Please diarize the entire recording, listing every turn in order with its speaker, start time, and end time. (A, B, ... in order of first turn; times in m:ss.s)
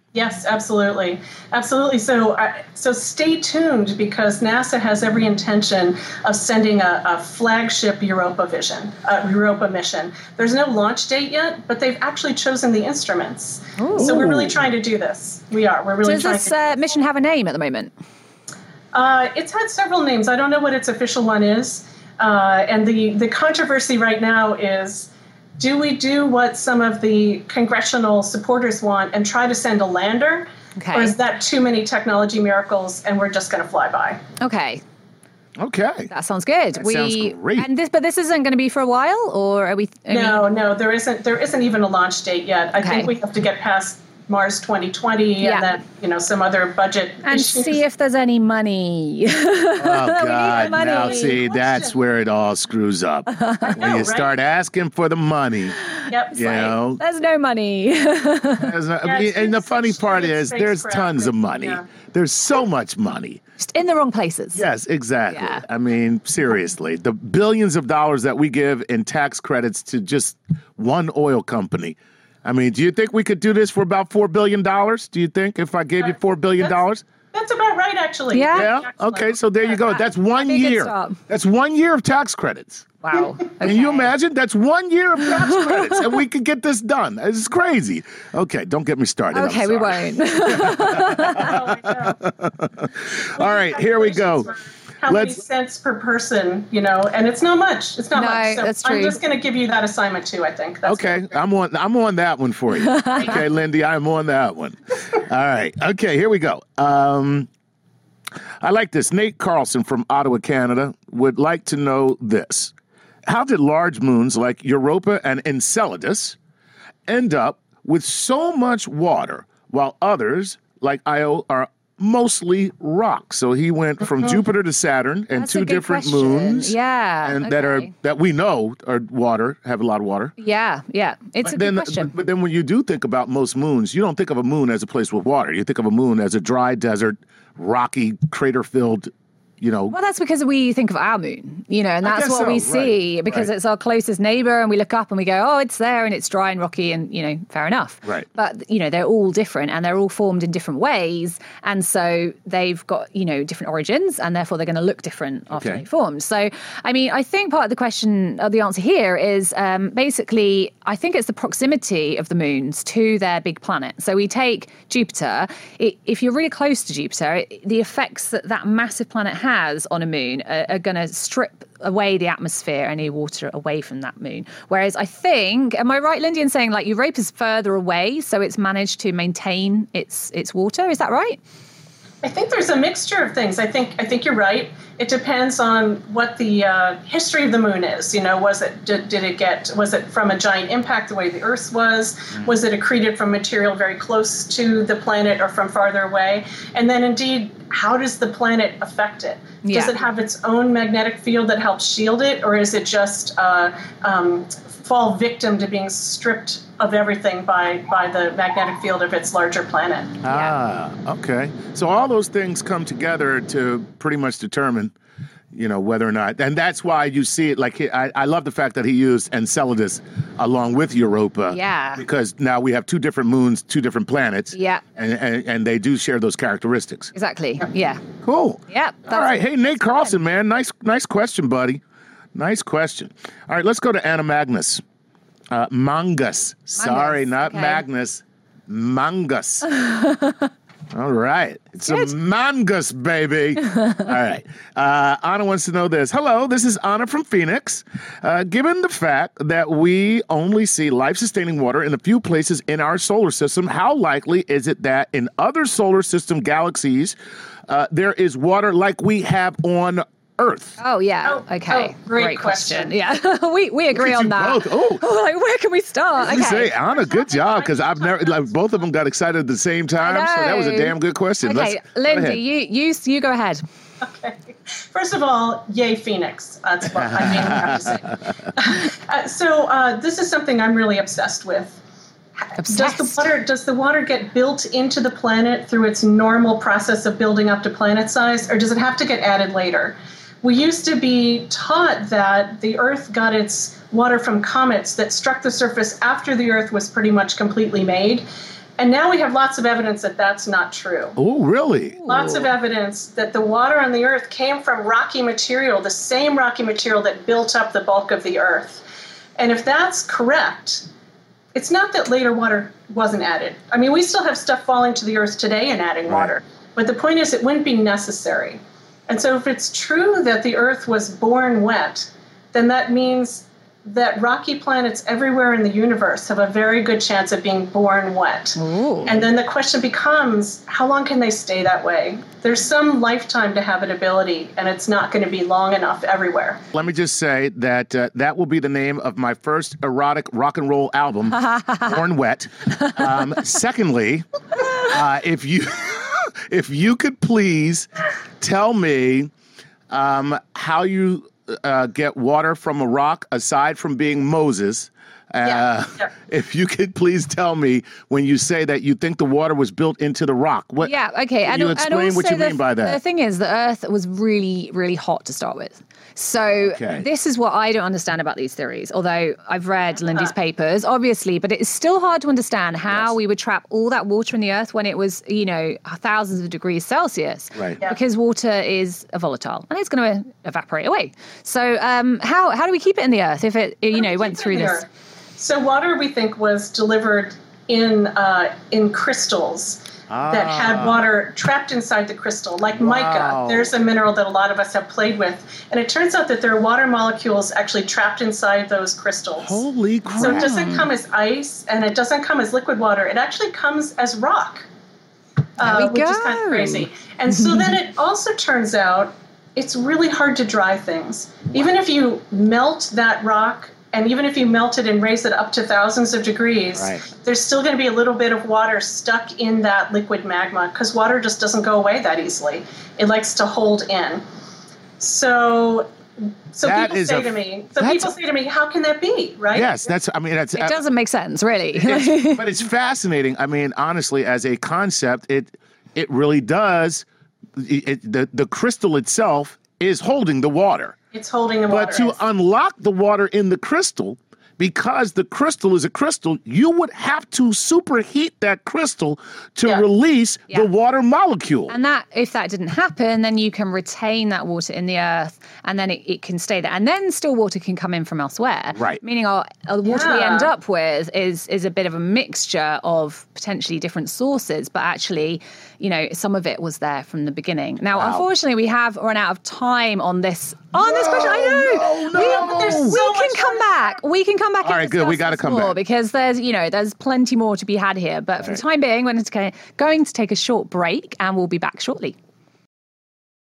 0:00.1-0:16.8 A
0:13.8-0:14.3 B
0:14.0-0:14.5 C
0:16.0-0:17.9 B
0:18.9-0:34.2 A
0:30.8-0:31.1 B
0:34.4-0:34.8 B
0:35.6-0:36.1 C
0:36.1-0:40.4 B
0:36.8-0:37.7 C
0:40.1-0:47.8 A
0:42.8-0:43.1 B
0:45.4-0:45.8 B
0:47.3-0:51.4 B
0:49.8-0:55.8 C
0:50.5-0:52.0 A
0:53.3-0:53.9 B
0:53.7-0:54.4 A
0:55.8-0:56.1 B
0:56.1-0:56.8 A
0:56.3-0:57.0 C
0:57.0-0:58.7 B
0:58.6-1:03.4 C
0:59.0-1:01.9 A
1:03.6-1:04.6 B
1:04.6-1:17.0 C
1:05.3-1:05.6 B
1:17.3-1:19.4 A
1:18.3-1:18.7 B
1:18.5-1:23.0 C
1:19.9-1:21.2 B
1:23.0-1:24.1 B
1:23.6-1:34.5 C
1:25.2-1:26.0 B
1:29.3-1:31.5 B
1:31.3-1:32.2 A
1:33.4-1:41.4 A
1:35.1-1:35.4 C
1:38.1-1:39.2 B
1:40.8-1:47.5 C
1:42.8-1:43.4 B
1:48.6-1:52.7 C
1:53.3-1:56.4 C
1:57.1-2:10.3 C
2:05.3-2:07.9 B
2:10.4-2:12.1 B
2:11.4-2:20.0 C
2:19.9-3:01.4 B
2:22.0-2:23.5 C
2:35.5-2:35.8 C
3:02.2-3:30.2 A
3:19.6-3:19.9 B
3:30.2-3:34.9 C
3:35.5-3:47.1 C
3:41.5-3:42.0 B
3:44.5-3:44.8 B
3:47.1-3:48.0 B
3:48.2-3:51.8 C
3:48.7-3:49.3 B
3:52.4-3:54.8 C
3:55.5-3:59.7 C
3:56.8-3:57.8 B
3:59.7-4:00.4 B
4:00.9-4:17.2 C
4:01.9-4:02.1 B
4:17.7-4:20.8 C
4:20.8-4:26.7 B
4:21.3-4:23.0 A
4:23.9-4:25.0 C
4:26.2-4:32.4 C
4:26.8-4:28.4 A
4:30.0-4:33.6 B
4:34.0-4:41.8 A
4:37.0-4:38.2 C
4:42.5-4:43.2 B
4:42.7-4:58.2 A
4:58.8-5:01.2 A
5:01.2-5:02.5 C
5:02.1-5:08.8 A
5:09.4-5:10.9 A
5:11.5-5:36.6 A
5:16.1-5:16.4 C
5:28.6-5:29.1 B
5:36.7-5:44.3 C
5:41.5-5:41.8 B
5:44.8-5:47.9 C
5:48.4-5:49.3 C
5:49.9-6:00.9 C
5:55.4-5:56.0 A
6:00.8-6:24.8 B
6:01.4-6:03.0 C
6:06.6-6:07.0 C
6:17.5-6:17.8 C
6:23.9-6:39.6 A
6:30.1-6:31.0 C
6:32.8-6:33.7 C
6:39.4-6:40.5 C
6:40.1-6:40.9 B
6:40.2-6:44.7 A
6:45.6-7:04.2 A
6:45.6-6:47.7 B
6:56.8-6:57.1 C
7:05.0-7:09.7 A
7:06.6-7:08.1 C
7:09.5-7:10.8 C
7:10.6-7:12.4 B
7:11.8-7:17.0 C
7:17.6-7:21.0 C
7:21.1-7:22.2 A
7:21.7-7:31.8 C
7:31.7-8:02.2 B
7:38.7-7:39.0 C
7:39.9-7:40.5 A
7:48.0-7:48.3 C
7:50.7-7:53.0 C
7:52.1-7:54.0 A
7:54.6-7:55.8 C